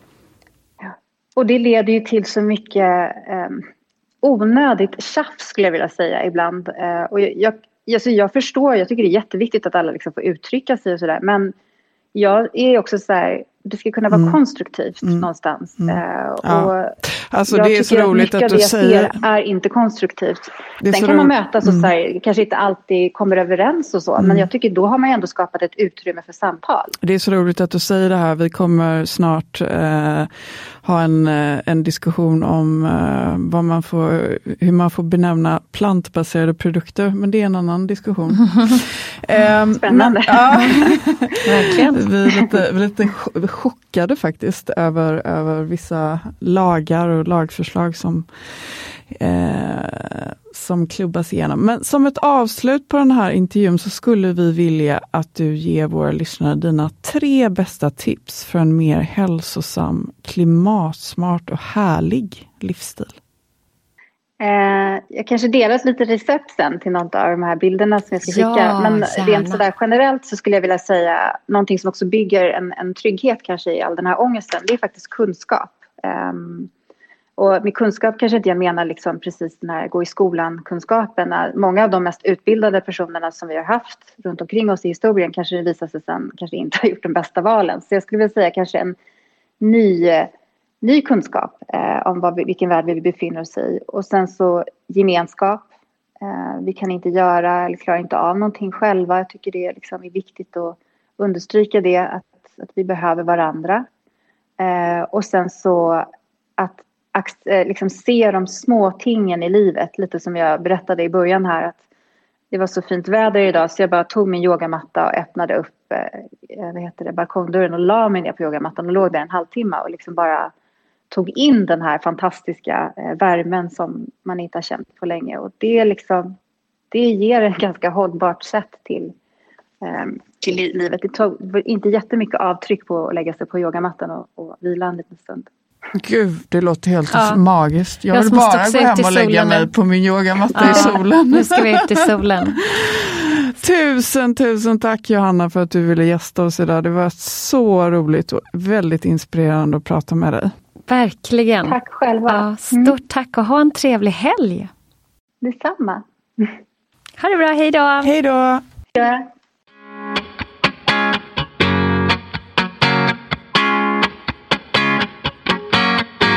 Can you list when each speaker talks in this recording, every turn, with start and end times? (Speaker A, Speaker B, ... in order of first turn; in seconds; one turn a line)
Speaker A: 0.8-3.6
Speaker A: 4.2-11.5
Speaker A: 12.1-17.0
Speaker B: 14.1-14.4
Speaker B: 15.0-15.3
Speaker B: 15.8-19.2
Speaker A: 17.5-27.0
Speaker B: 20.8-21.9
Speaker B: 24.2-24.5
Speaker B: 27.0-30.3
Speaker B: 30.8-63.1
Speaker A: 39.8-40.9
Speaker C: 41.5-42.0
Speaker A: 64.4-76.7
Speaker C: 68.2-69.6
Speaker A: 77.4-89.0
Speaker A: 89.6-90.3
Speaker A: 90.8-95.7
Speaker A: 96.2-103.9
Speaker A: 104.6-106.1
Speaker A: 106.6-111.8
Speaker A: 112.5-120.5
Speaker A: 121.1-126.3
Speaker A: 126.9-129.1
Speaker A: 129.8-135.5
Speaker B: 136.0-141.8
Speaker C: 137.1-137.4
Speaker C: 138.1-139.7
Speaker C: 140.6-142.6
Speaker A: 140.6-140.9
Speaker B: 142.5-150.5
Speaker C: 150.9-154.7
Speaker A: 151.7-153.0
Speaker A: 155.4-156.6
Speaker C: 157.2-158.1
Speaker B: 158.0-158.6
Speaker A: 158.9-159.3